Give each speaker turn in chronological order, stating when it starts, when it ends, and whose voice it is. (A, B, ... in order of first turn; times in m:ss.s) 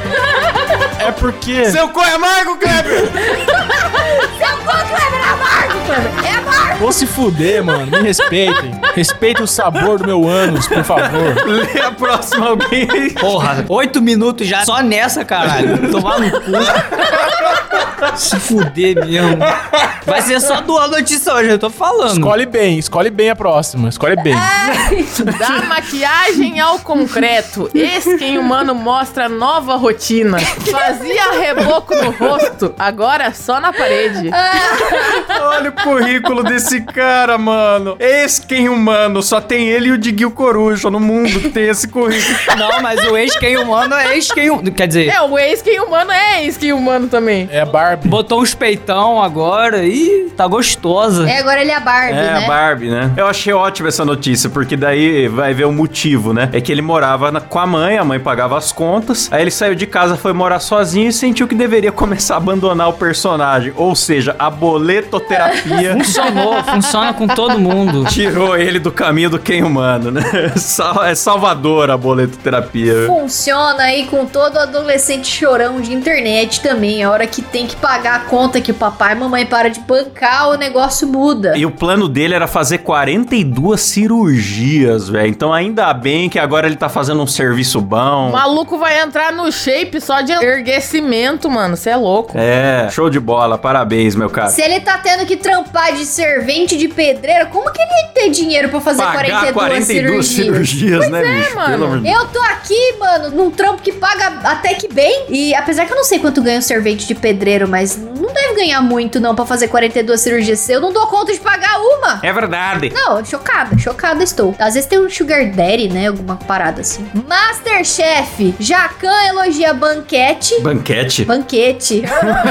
0:01.0-0:01.8 A
0:01.6-0:03.3 B
0:03.1-0:07.0 C
0:06.8-0:11.4 A
0:10.6-0:13.5 B
0:13.2-0:16.8 D
0:15.4-0:15.8 B
0:16.9-0:17.9 B
0:18.1-0:19.5 D
0:19.4-0:20.0 B
0:20.1-0:22.4 D
0:22.1-0:24.5 A
0:24.4-0:25.3 C
0:24.6-0:25.3 B
0:25.4-0:34.4 E
0:34.3-0:35.2 C
0:35.3-0:42.5 B
0:42.5-0:45.2 D
0:45.1-0:47.5 E
0:47.5-0:48.2 A
0:48.0-0:51.4 D
0:51.2-0:52.6 C
0:52.1-1:06.1 B
1:05.9-1:08.2 D
1:08.1-1:13.2 B
1:12.9-1:21.6 C
1:21.5-1:28.4 B
1:28.2-1:32.4 E
1:32.3-1:34.6 B
1:34.5-1:40.8 C
1:39.0-1:42.2 B
1:41.0-1:42.0 E
1:42.0-1:52.2 C
1:52.2-1:53.0 B
1:52.9-2:00.6 C
2:00.6-2:01.3 B
2:01.3-2:02.3 C